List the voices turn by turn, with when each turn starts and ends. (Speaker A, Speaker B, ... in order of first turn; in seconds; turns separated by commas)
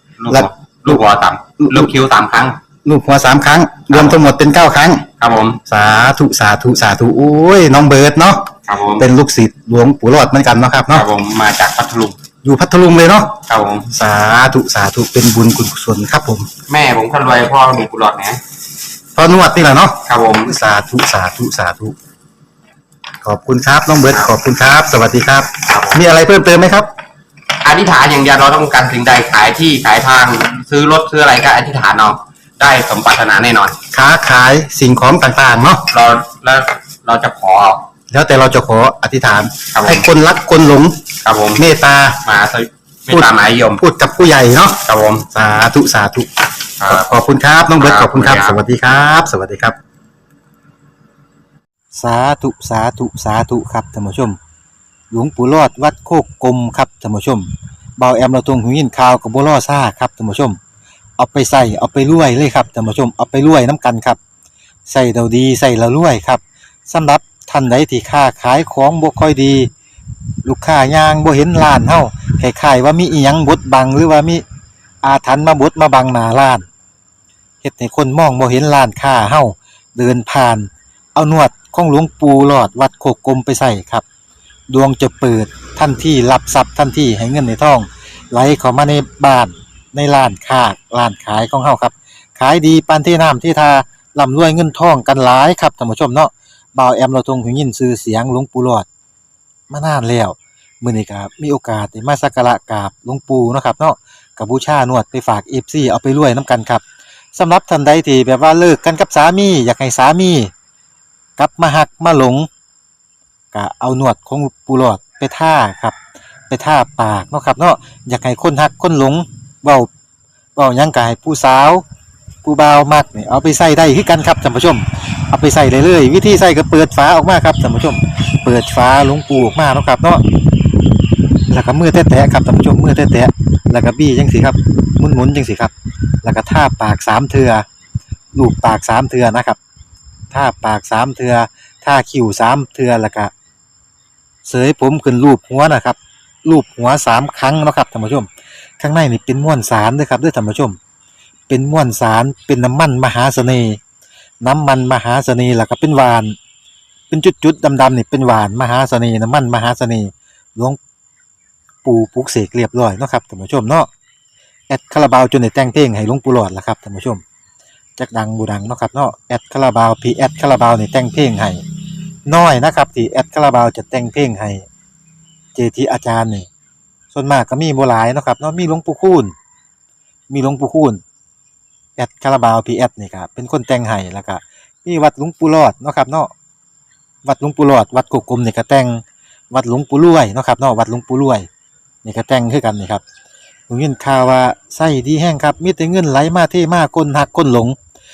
Speaker A: 0.2-2.6, Speaker B: 0.3-1.0, Speaker B: 1.6-1.9, Speaker B: 2.8-5.1, Speaker A: 3.9-4.3, Speaker A: 5.2-5.6, Speaker B: 5.7-11.1, Speaker A: 8.7-9.1, Speaker A: 10.9-12.2, Speaker B: 12.4-16.5, Speaker A: 13.5-13.9, Speaker A: 16.7-18.4, Speaker B: 19.1-21.9, Speaker A: 20.1-20.5, Speaker B: 23.2-26.9, Speaker A: 25.7-26.0, Speaker A: 27.6-33.8, Speaker B: 33.9-35.9, Speaker A: 35.9-37.8, Speaker B: 38.1-42.2, Speaker A: 39.7-40.1, Speaker A: 41.2-41.6, Speaker A: 42.2-43.8, Speaker B: 43.1-46.3, Speaker A: 44.8-45.3, Speaker A: 46.8-47.1, Speaker B: 46.9-49.8, Speaker A: 47.8-48.6, Speaker B: 51.9-54.4, Speaker B: 55.1-60.6, Speaker B: 61.2-64.2, Speaker B: 64.9-69.7, Speaker B: 70.4-74.4, Speaker B: 75.0-76.7, Speaker B: 77.6-84.0, Speaker B: 84.7-98.8, Speaker B: 99.7-106.8, Speaker B: 107.3-110.5, Speaker B: 111.4-112.5, Speaker B: 113.5-116.0, Speaker B: 116.5-119.9, Speaker B: 120.5-121.8, Speaker B: 122.4-130.2, Speaker B: 131.5-137.6, Speaker B: 138.3-139.6, Speaker B: 140.3-143.3, Speaker B: 144.4-150.8, Speaker B: 151.5-153.8, Speaker B: 154.4-156.3, Speaker B: 157.1-160.8, Speaker B: 161.8-163.9, Speaker B: 164.7-167.2, Speaker B: 168.0-171.6, Speaker B: 172.3-174.6, Speaker B: 175.5-176.5, Speaker B: 177.1-179.3, Speaker B: 180.3-181.0, Speaker B: 182.0-186.3, Speaker B: 187.2-191.5, Speaker B: 192.0-193.0, Speaker B: 193.7-197.8